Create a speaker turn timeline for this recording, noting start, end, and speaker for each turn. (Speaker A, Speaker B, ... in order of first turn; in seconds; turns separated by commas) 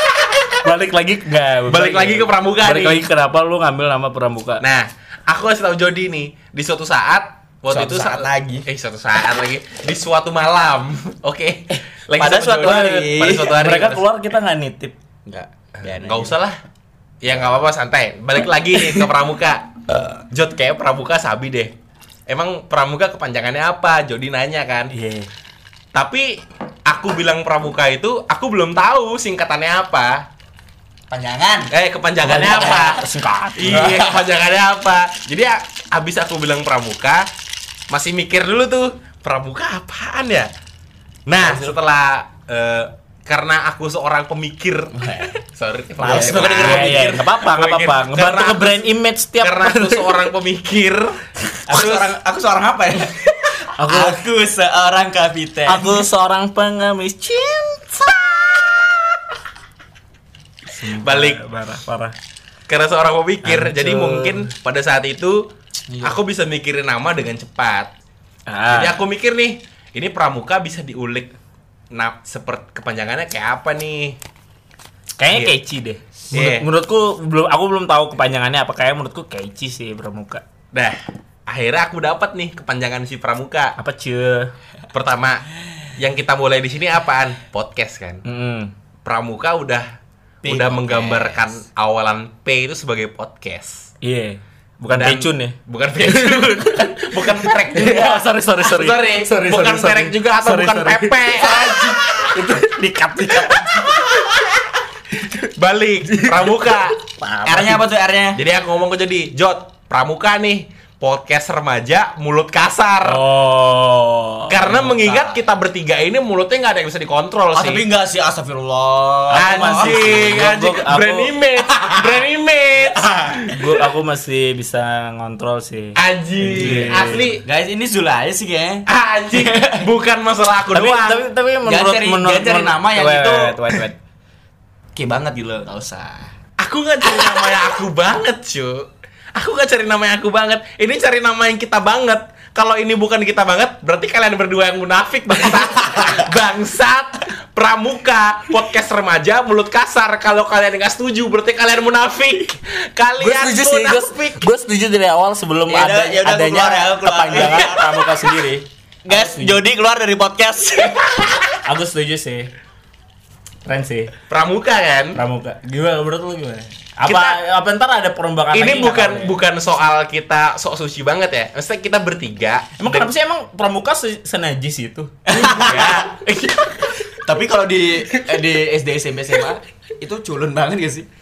Speaker A: 0.6-4.6, Speaker B: 1.7-3.0, Speaker B: 4.6-14.0, Speaker C: 7.7-8.7, Speaker C: 11.7-13.5, Speaker A: 12.6-14.9, Speaker C: 15.3-16.4, Speaker B: 15.8-16.6, Speaker B: 17.2-21.7, Speaker B: 22.3-24.9, Speaker A: 24.9-25.3, Speaker B: 25.9-30.2, Speaker C: 31.1-31.7, Speaker B: 31.7-37.3, Speaker A: 32.2-34.0, Speaker C: 32.3-32.7, Speaker C: 33.7-34.2, Speaker B: 37.9-40.5, Speaker B: 41.3-48.9, Speaker C: 41.3-41.8, Speaker C: 44.9-45.4, Speaker C: 46.0-47.2, Speaker A: 46.0-50.2, Speaker B: 49.4-52.1, Speaker C: 51.7-56.1, Speaker A: 53.7-54.2, Speaker A: 55.6-59.0, Speaker A: 60.7-62.1, Speaker B: 61.0-61.4, Speaker B: 62.7-65.4, Speaker A: 63.4-64.5, Speaker C: 65.9-66.2, Speaker B: 66.0-67.9, Speaker A: 68.5-69.0, Speaker B: 68.7-71.3, Speaker B: 71.9-74.2, Speaker A: 75.2-80.4, Speaker B: 76.3-76.7, Speaker B: 81.5-83.8, Speaker A: 83.8-84.5, Speaker B: 84.9-88.2, Speaker A: 88.2-88.7, Speaker B: 89.0-89.9, Speaker C: 90.4-91.6, Speaker B: 90.4-93.9, Speaker A: 94.0-104.2, Speaker B: 94.9-102.3, Speaker B: 103.4-104.3, Speaker B: 105.4-107.0, Speaker A: 106.1-107.8, Speaker C: 107.4-108.4, Speaker B: 108.3-113.2, Speaker A: 113.0-114.8, Speaker B: 114.5-117.8, Speaker C: 114.7-115.4, Speaker C: 117.5-120.5, Speaker A: 119.3-121.3, Speaker B: 119.3-123.6, Speaker C: 121.7-122.2, Speaker C: 123.0-123.4, Speaker A: 123.5-127.3, Speaker B: 126.0-127.4, Speaker C: 126.5-129.9, Speaker B: 128.9-131.3, Speaker A: 130.7-133.9, Speaker C: 131.6-133.8, Speaker C: 134.9-136.3, Speaker B: 136.6-154.4, Speaker A: 153.2-159.6, Speaker C: 155.7-157.9, Speaker C: 159.0-161.5, Speaker A: 161.6-162.5, Speaker A: 163.7-164.1, Speaker B: 164.3-165.2, Speaker A: 165.1-169.4, Speaker B: 167.0-167.4, Speaker B: 168.5-173.1, Speaker A: 172.8-175.9, Speaker C: 175.2-176.1, Speaker B: 175.6-176.9, Speaker C: 177.2-181.1